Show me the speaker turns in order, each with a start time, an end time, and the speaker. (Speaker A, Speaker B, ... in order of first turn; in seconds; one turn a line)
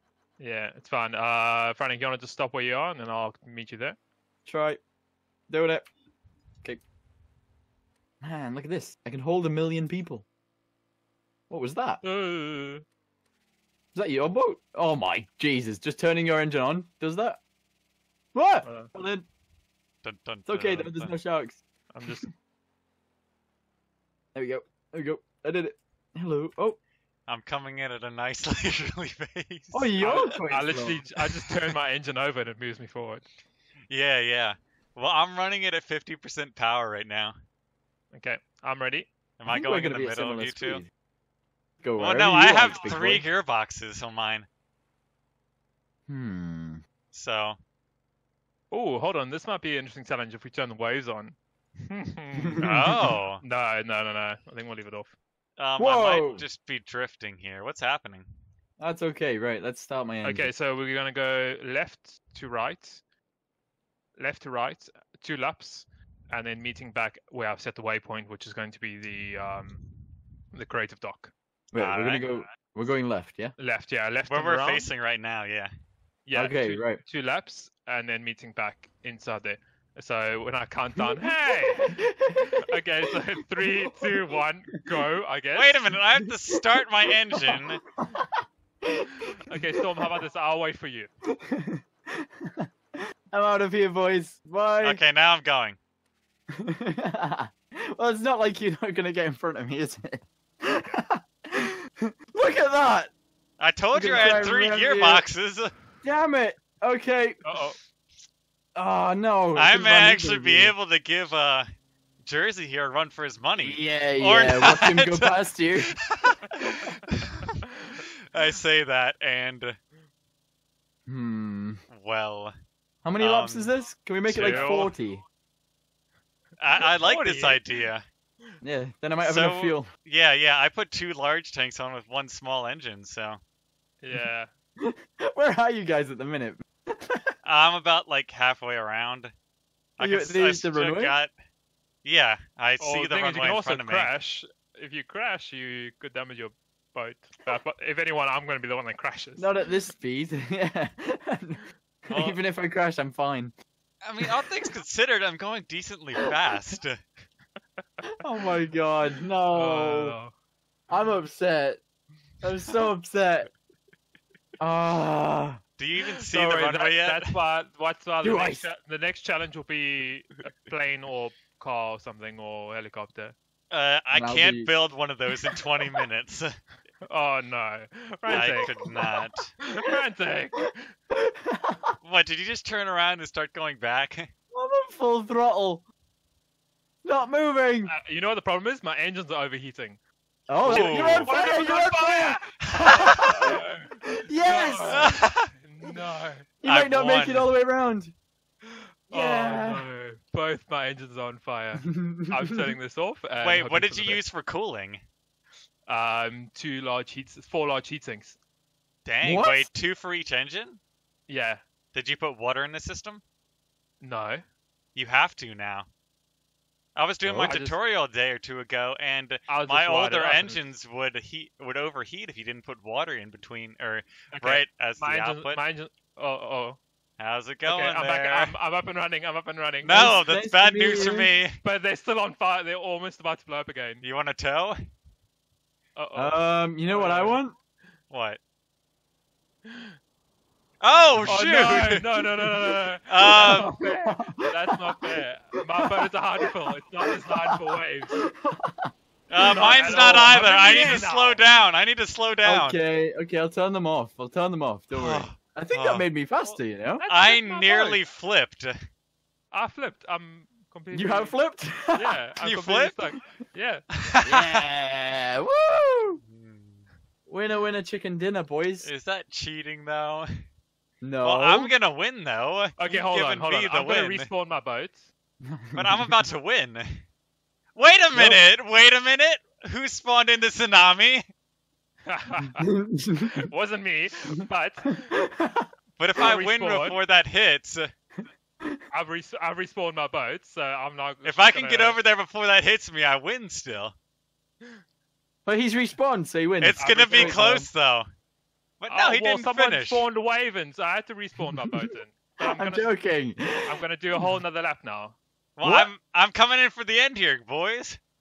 Speaker A: 0.4-4.0
Speaker B: 4.5-4.8
Speaker B: 5.5-5.9
Speaker B: 8.2-10.2
Speaker B: 11.5-12.0
Speaker A: 12.0-12.8
Speaker B: 13.9-17.4
Speaker B: 18.3-19.3
Speaker A: 18.6-18.9
Speaker C: 20.0-21.1
Speaker B: 20.5-21.6
Speaker A: 21.9-22.3
Speaker B: 24.3-26.8
Speaker C: 27.3-30.4
Speaker B: 29.7-31.0
Speaker A: 30.0-33.2
Speaker C: 33.9-37.3
Speaker A: 38.1-39.1
Speaker C: 39.4-40.8
Speaker B: 39.5-40.9
Speaker B: 41.8-43.3
Speaker C: 42.0-44.5
Speaker B: 46.1-46.8
Speaker C: 47.1-47.6
Speaker A: 48.7-55.1
Speaker B: 52.4-53.0
Speaker C: 52.6-53.4
Speaker C: 55.6-58.3
Speaker B: 55.8-56.5
Speaker B: 58.8-60.5
Speaker A: 60.2-63.0
Speaker A: 64.2-69.8
Speaker A: 70.5-71.3
Speaker B: 71.7-73.5
Speaker C: 71.8-72.5
Speaker A: 73.6-74.9
Speaker C: 74.3-75.7
Speaker A: 76.3-82.1
Speaker B: 76.3-77.0
Speaker B: 81.6-82.6
Speaker A: 82.6-85.8
Speaker C: 85.5-87.8
Speaker B: 86.2-86.6
Speaker B: 88.8-89.6
Speaker A: 89.5-91.1
Speaker B: 91.3-92.7
Speaker B: 93.3-95.0
Speaker C: 94.8-95.8
Speaker B: 96.6-103.1
Speaker A: 100.7-101.0
Speaker C: 103.6-105.7
Speaker B: 103.9-105.3
Speaker A: 104.1-104.6
Speaker B: 106.0-107.4
Speaker A: 107.4-107.8
Speaker B: 108.8-110.7
Speaker C: 109.5-111.7
Speaker C: 112.2-117.5
Speaker B: 113.6-115.9
Speaker C: 118.3-119.8
Speaker B: 121.1-121.8
Speaker C: 121.9-122.5
Speaker B: 123.0-125.2
Speaker C: 123.2-123.7
Speaker C: 124.3-124.9
Speaker A: 124.3-125.0
Speaker C: 126.6-128.0
Speaker A: 126.8-127.7
Speaker B: 128.6-129.9
Speaker C: 129.2-133.4
Speaker A: 134.0-134.5
Speaker B: 134.8-137.2
Speaker C: 137.4-139.3
Speaker C: 140.0-141.3
Speaker B: 140.0-141.2
Speaker C: 142.1-144.1
Speaker A: 142.8-149.5
Speaker B: 149.4-153.5
Speaker C: 152.1-152.4
Speaker C: 154.0-157.0
Speaker B: 158.2-160.2
Speaker A: 159.6-160.3
Speaker B: 160.9-161.8
Speaker B: 162.4-163.5
Speaker B: 164.6-165.6
Speaker C: 165.8-167.3
Speaker A: 166.2-173.4
Speaker B: 168.2-168.7
Speaker C: 173.7-176.5
Speaker B: 174.1-174.7
Speaker A: 177.1-178.7
Speaker C: 178.3-179.5
Speaker A: 179.6-180.9
Speaker B: 181.2-181.9
Speaker C: 182.0-184.3
Speaker B: 184.5-185.8
Speaker B: 187.0-187.9
Speaker A: 187.9-190.0
Speaker B: 190.5-193.4
Speaker A: 190.6-193.9
Speaker C: 190.6-191.4
Speaker C: 192.8-193.3
Speaker B: 194.2-195.1
Speaker A: 194.4-196.5
Speaker C: 194.9-195.5
Speaker B: 196.6-198.1
Speaker C: 196.7-197.5
Speaker A: 199.1-204.2
Speaker B: 199.1-199.9
Speaker B: 201.9-202.3
Speaker C: 203.4-205.0
Speaker A: 205.9-208.4
Speaker C: 209.1-210.8
Speaker B: 209.2-209.7
Speaker A: 211.3-211.6
Speaker C: 211.9-213.2
Speaker A: 214.0-214.4
Speaker C: 214.9-215.9
Speaker C: 217.0-225.6
Speaker B: 217.2-217.6
Speaker A: 217.4-217.8
Speaker A: 219.5-220.7
Speaker A: 224.3-226.8
Speaker C: 227.2-228.5
Speaker A: 227.7-230.1
Speaker C: 229.8-231.6
Speaker B: 229.9-231.3
Speaker A: 231.6-234.0
Speaker C: 234.0-234.8
Speaker A: 235.9-237.4
Speaker B: 236.2-237.6
Speaker C: 238.1-238.4
Speaker A: 239.7-239.9
Speaker C: 240.8-242.0
Speaker B: 241.1-241.3
Speaker A: 241.3-248.2
Speaker C: 243.1-243.7
Speaker B: 243.2-245.1
Speaker B: 247.1-247.6
Speaker B: 248.1-250.4
Speaker C: 249.3-252.8
Speaker A: 249.4-251.4
Speaker B: 252.4-257.0
Speaker C: 254.9-256.1
Speaker A: 256.4-258.0
Speaker C: 257.1-258.7
Speaker A: 259.5-261.4
Speaker B: 260.9-262.2
Speaker A: 261.9-263.9
Speaker C: 262.4-263.2
Speaker C: 264.1-264.6
Speaker B: 264.2-266.2
Speaker C: 266.2-266.9
Speaker B: 267.3-268.9
Speaker C: 268.8-270.3
Speaker B: 271.0-271.7
Speaker C: 271.2-274.3
Speaker A: 272.8-275.1
Speaker B: 275.4-276.1
Speaker C: 275.7-277.0
Speaker C: 277.8-281.2
Speaker B: 278.1-278.4
Speaker A: 282.1-282.7
Speaker B: 282.6-283.4
Speaker A: 283.2-285.1
Speaker B: 285.4-285.7
Speaker C: 286.0-287.9
Speaker A: 286.2-287.0
Speaker A: 288.9-292.0
Speaker C: 291.2-293.9
Speaker B: 295.5-297.7
Speaker C: 296.6-298.1
Speaker A: 296.8-297.6
Speaker C: 298.8-300.1
Speaker A: 298.9-302.9
Speaker B: 302.4-304.3
Speaker A: 303.6-305.2
Speaker C: 305.6-308.0
Speaker B: 305.6-305.9